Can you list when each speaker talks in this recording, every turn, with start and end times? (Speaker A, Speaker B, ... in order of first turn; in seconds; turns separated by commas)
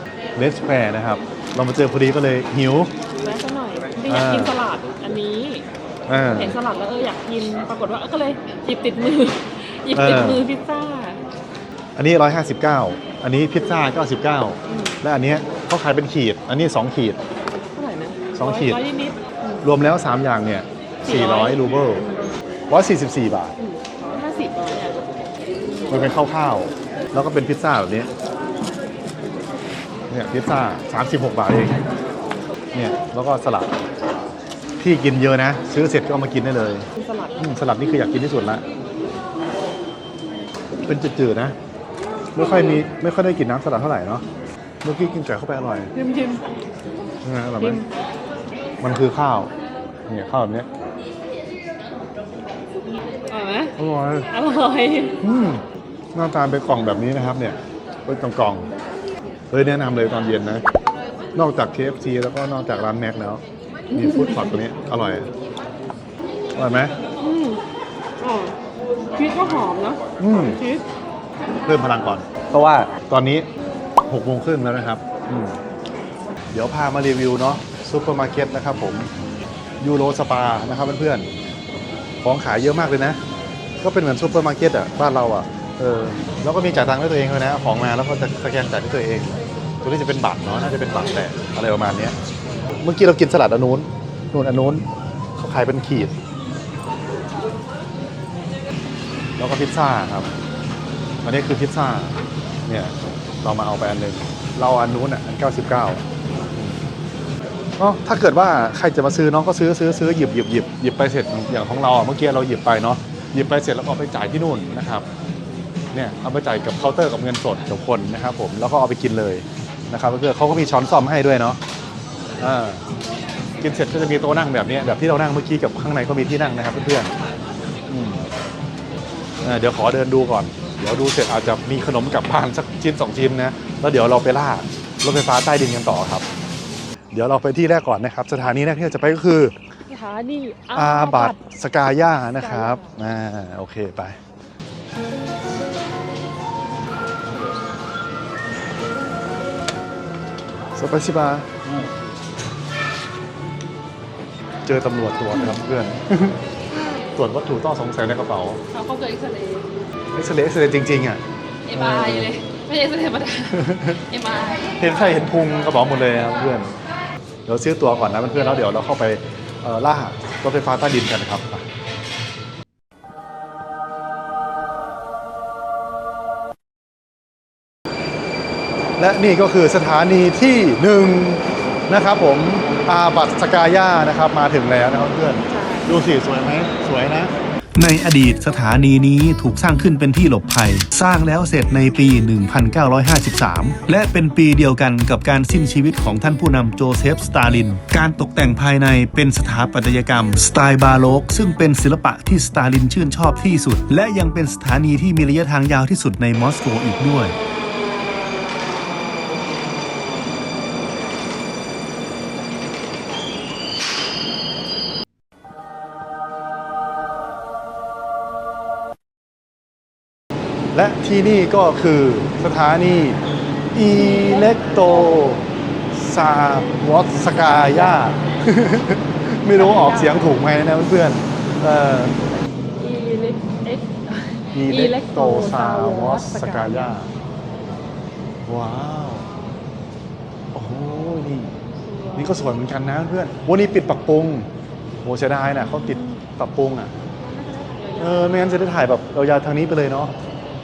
Speaker A: 0.4-2.9, Speaker B: 3.2-5.7, Speaker A: 4.1-4.6, Speaker A: 6.1-6.5, Speaker B: 6.3-11.2, Speaker A: 9.9-10.4, Speaker A: 12.0-17.2, Speaker B: 14.7-15.0, Speaker B: 17.7-19.6, Speaker A: 18.3-18.8, Speaker A: 19.6-22.1, Speaker B: 21.0-21.6, Speaker A: 22.7-23.6, Speaker B: 23.6-25.0, Speaker A: 25.9-28.1, Speaker A: 30.1-31.8, Speaker A: 32.7-33.7, Speaker A: 34.8-38.6, Speaker B: 37.0-37.4, Speaker A: 40.8-41.6, Speaker A: 42.4-44.2, Speaker A: 44.8-45.9, Speaker B: 46.0-46.6, Speaker A: 47.2-47.8, Speaker B: 47.6-47.9, Speaker A: 48.8-49.5, Speaker A: 50.1-50.7, Speaker B: 53.3-53.8, Speaker A: 53.8-54.3, Speaker B: 54.3-55.2, Speaker A: 55.2-55.6, Speaker A: 56.1-58.7, Speaker A: 59.5-60.6, Speaker A: 61.4-65.3, Speaker A: 66.6-66.9, Speaker B: 67.2-67.6, Speaker B: 68.2-68.6, Speaker B: 69.1-70.8, Speaker A: 70.2-70.6, Speaker A: 71.6-73.5, Speaker A: 74.0-75.6, Speaker A: 76.5-79.1, Speaker A: 79.8-81.3, Speaker A: 82.2-83.2, Speaker A: 83.8-92.2, Speaker A: 92.8-94.8, Speaker A: 95.4-96.1, Speaker A: 99.4-100.3, Speaker A: 101.2-102.2, Speaker A: 102.7-106.0, Speaker A: 106.5-106.8, Speaker A: 107.8-115.1, Speaker A: 115.9-121.6, Speaker A: 122.4-122.8, Speaker A: 123.6-127.1, Speaker A: 127.9-128.2, Speaker A: 129.4-136.2, Speaker A: 137.1-139.6, Speaker B: 139.9-141.4, Speaker A: 140.7-144.2, Speaker B: 142.4-142.9, Speaker A: 150.8-151.6, Speaker A: 154.7-158.6, Speaker B: 158.7-159.7, Speaker A: 160.1-161.2, Speaker B: 161.7-164.7, Speaker A: 161.7-162.3, Speaker A: 163.6-164.0, Speaker A: 164.8-166.7, Speaker A: 167.5-171.7, Speaker A: 179.0-187.3, Speaker B: 185.5-185.9, Speaker C: 187.8-207.4, Speaker A: 220.7-223.2, Speaker A: 223.7-232.2, Speaker B: 223.9-225.4, Speaker B: 227.6-228.1, Speaker B: 229.5-230.4, Speaker B: 232.8-237.0, Speaker A: 234.5-237.1, Speaker A: 238.4-239.3, Speaker A: 240.5-241.5, Speaker B: 241.9-242.4, Speaker A: 242.1-244.5, Speaker A: 245.0-246.9, Speaker B: 245.8-246.2, Speaker B: 247.2-248.6, Speaker A: 248.0-250.1